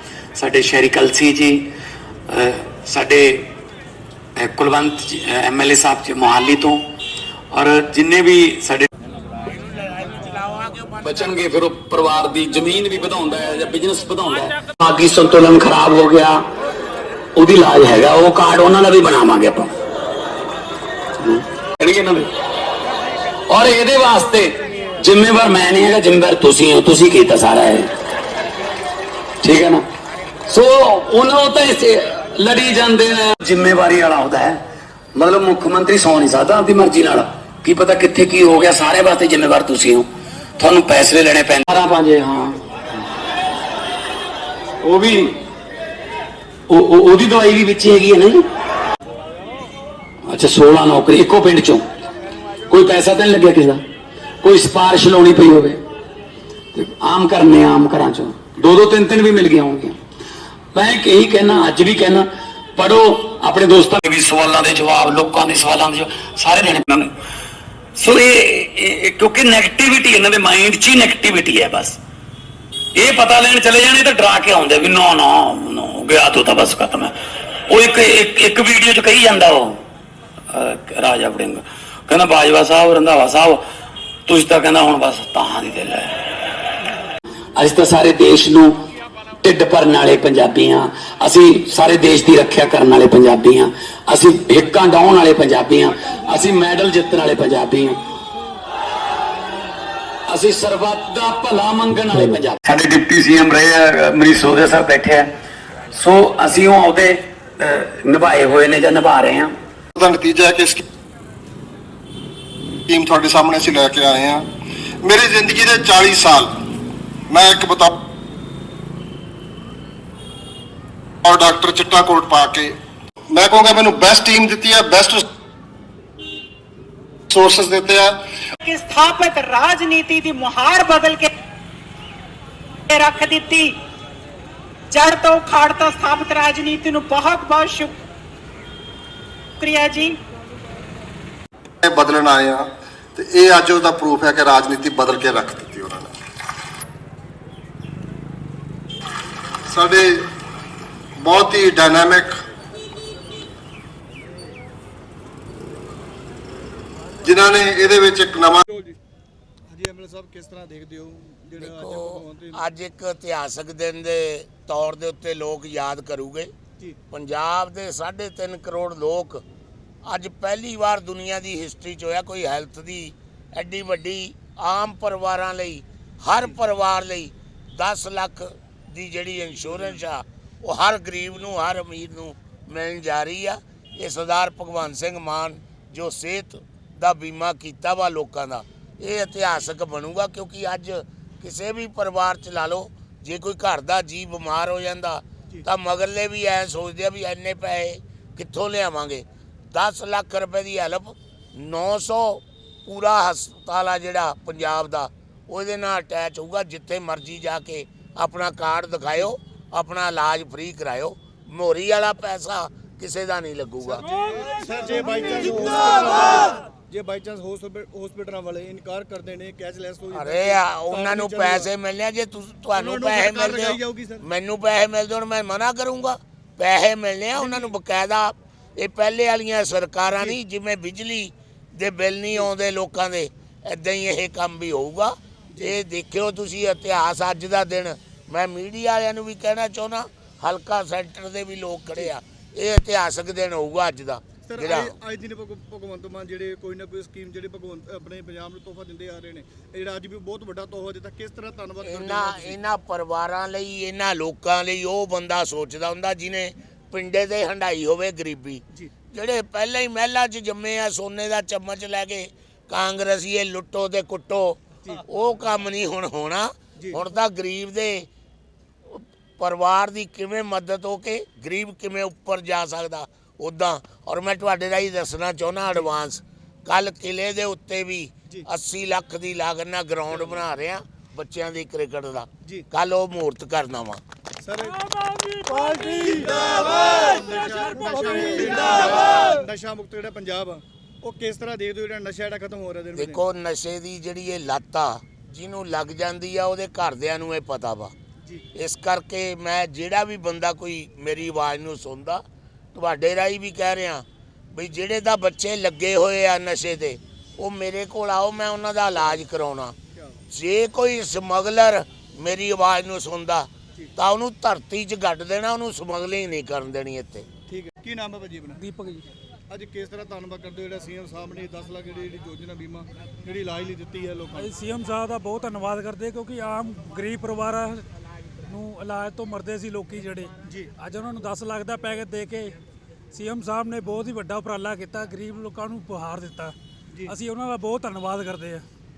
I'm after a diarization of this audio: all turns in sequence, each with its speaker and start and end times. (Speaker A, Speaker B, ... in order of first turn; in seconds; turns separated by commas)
Speaker A: 0.3-1.7, Speaker A: 2.3-3.5, Speaker A: 4.3-6.8, Speaker A: 7.5-8.9, Speaker A: 11.0-16.4, Speaker A: 17.4-19.7, Speaker A: 21.2-22.3, Speaker A: 23.5-27.9, Speaker A: 29.4-29.8, Speaker A: 30.5-34.6, Speaker A: 35.1-40.0, Speaker A: 40.6-42.6, Speaker A: 44.8-45.4, Speaker A: 46.7-48.4, Speaker A: 50.2-51.8, Speaker A: 52.7-53.8, Speaker A: 54.4-55.8, Speaker A: 56.7-59.9, Speaker A: 60.7-67.1, Speaker A: 68.0-72.0, Speaker A: 73.0-77.1, Speaker A: 77.7-79.8, Speaker A: 80.5-83.6, Speaker A: 84.2-86.1, Speaker A: 87.5-88.7, Speaker A: 89.4-98.0, Speaker A: 100.3-105.3, Speaker A: 105.9-109.5, Speaker B: 110.0-110.8, Speaker B: 112.9-114.4, Speaker B: 115.0-116.5, Speaker B: 117.3-117.9, Speaker B: 121.2-122.7, Speaker B: 123.3-125.2, Speaker B: 127.3-128.2, Speaker C: 128.6-131.3, Speaker C: 132.9-133.7, Speaker C: 134.9-137.9, Speaker C: 139.6-140.1, Speaker B: 141.8-146.1, Speaker B: 149.7-150.2, Speaker B: 151.2-152.3, Speaker D: 154.2-154.5, Speaker B: 157.2-158.6, Speaker D: 158.6-159.0, Speaker D: 159.7-162.6, Speaker E: 161.6-166.5, Speaker E: 167.1-169.4, Speaker E: 170.0-214.0, Speaker D: 213.8-221.7, Speaker E: 220.1-244.9, Speaker D: 222.7-224.2, Speaker D: 227.3-227.7, Speaker D: 244.4-252.6, Speaker E: 251.8-268.1, Speaker E: 268.9-284.0, Speaker D: 280.1-280.4, Speaker D: 284.4-284.9, Speaker D: 285.4-293.2, Speaker E: 292.9-297.9, Speaker E: 298.5-302.2, Speaker E: 302.7-309.8, Speaker D: 308.9-309.2, Speaker D: 309.9-310.2, Speaker E: 310.3-317.2, Speaker D: 317.5-318.6, Speaker F: 318.6-319.1, Speaker D: 319.5-324.5, Speaker F: 324.4-327.8, Speaker F: 328.5-332.6, Speaker D: 330.4-330.7, Speaker F: 333.1-336.5, Speaker F: 337.1-338.6